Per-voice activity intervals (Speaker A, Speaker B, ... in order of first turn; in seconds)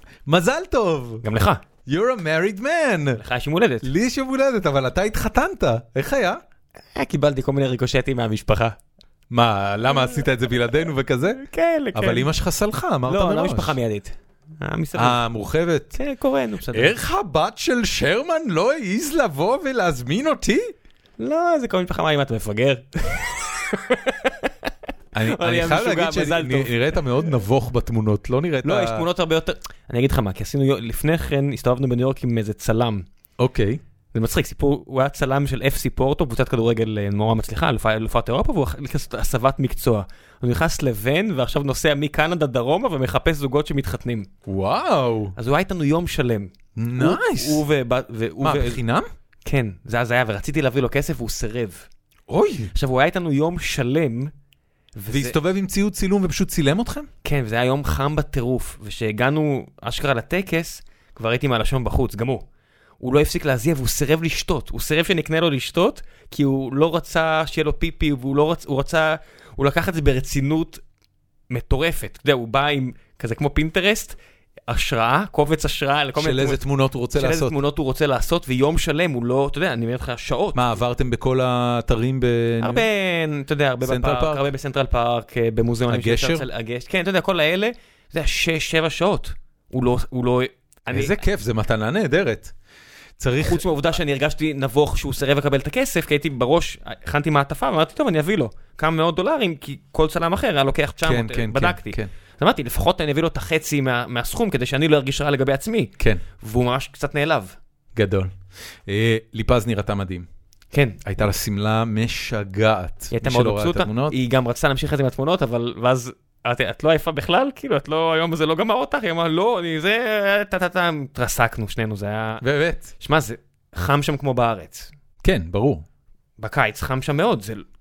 Speaker A: 0.3-1.2, 1.9-3.2, 3.8-6.4, 9.3-11.4, 11.9-13.8, 14.9-16.0, 16.7-20.7, 25.1-29.0, 33.4-33.8, 44.5-45.4, 46.8-47.6, 48.4-49.1, 52.3-52.7, 55.1-57.1, 76.2-77.5, 80.5-82.9, 83.8-84.5, 85.9-86.5, 90.9-92.5, 93.2-93.7, 101.0-102.1, 108.0-108.3, 108.9-110.3, 111.0-114.2, 122.4-122.9, 125.2-125.8
Speaker B: 1.2-1.6, 3.2-3.9, 7.0-8.8, 9.9-10.2, 11.4-12.3, 13.1-15.2, 15.9-17.0, 21.2-24.5, 25.3-27.0, 28.6-33.1, 34.1-44.3, 45.4-48.8, 49.5-51.9, 52.7-54.3, 55.0-55.4, 57.2-62.5, 63.0-70.8, 71.5-74.2, 74.7-76.6, 77.1-80.8, 82.6-91.2, 93.4-107.6, 110.7-111.0, 113.1-122.4, 123.0-124.9, 126.4-127.7